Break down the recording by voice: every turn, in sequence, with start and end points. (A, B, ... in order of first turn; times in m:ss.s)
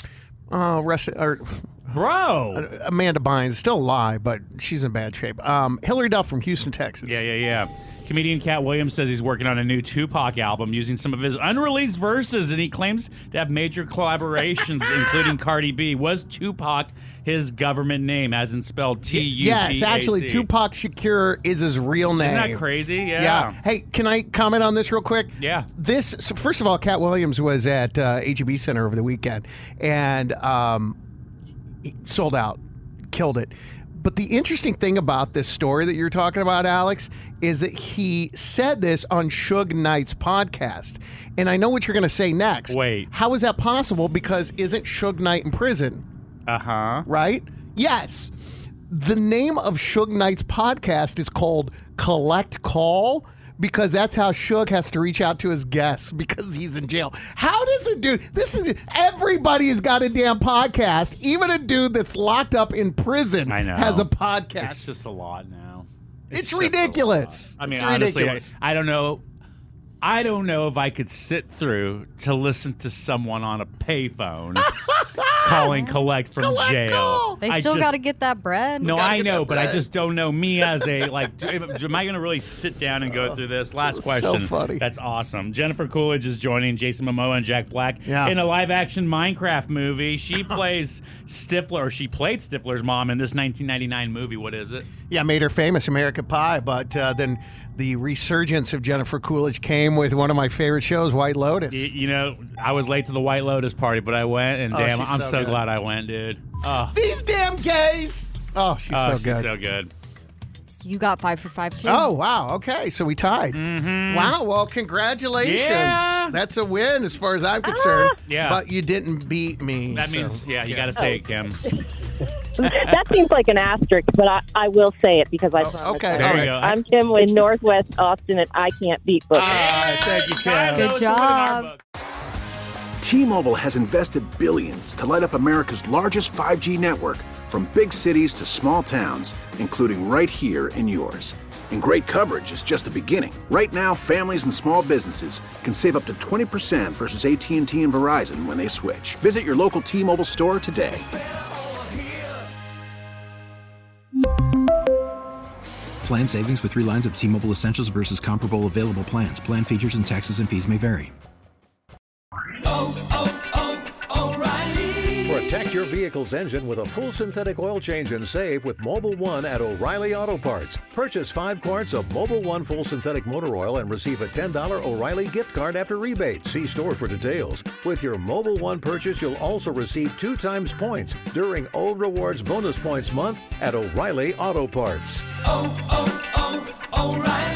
0:00.5-0:02.0 A
0:01.9-0:02.7 B
0:02.5-0:07.2 A
0:07.0-0:20.5 B
0:19.0-0:31.0 A
0:22.2-0:23.6 B
0:25.4-0:25.7 B
0:31.8-0:32.6 A
0:33.1-0:46.0 A
0:42.7-0:43.1 B
0:46.5-0:47.1 B
0:47.1-0:48.3 A
0:48.9-1:04.8 A
1:03.5-1:09.2 B
1:06.3-1:08.5 A
1:10.0-1:14.7 B
1:14.6-1:15.8 A
1:15.4-1:18.0 B
1:15.7-1:16.0 C
1:16.4-1:17.4 A
1:17.4-1:19.0 C
1:18.8-1:34.9 B
1:18.9-1:19.8 A
1:20.6-1:21.0 A
1:23.1-1:24.9 A
1:28.1-1:28.4 A
1:35.1-1:41.9 A
1:41.7-1:47.0 B
1:44.7-1:45.6 A
1:46.9-1:49.6 A
1:48.9-1:49.9 B
1:50.8-1:52.1 C
1:51.8-2:01.0 A
1:53.5-1:54.4 B
1:55.4-1:56.4 B
1:57.6-1:58.2 D
1:58.3-1:58.6 B
1:59.9-2:01.7 B
2:02.6-2:09.6 D
2:05.6-2:06.5 A
2:06.2-2:06.8 B
2:09.3-2:11.8 B
2:09.4-2:11.0 A
2:10.7-2:11.7 C
2:13.0-2:31.0 E
2:36.0-2:41.1 F
2:44.7-3:05.3 G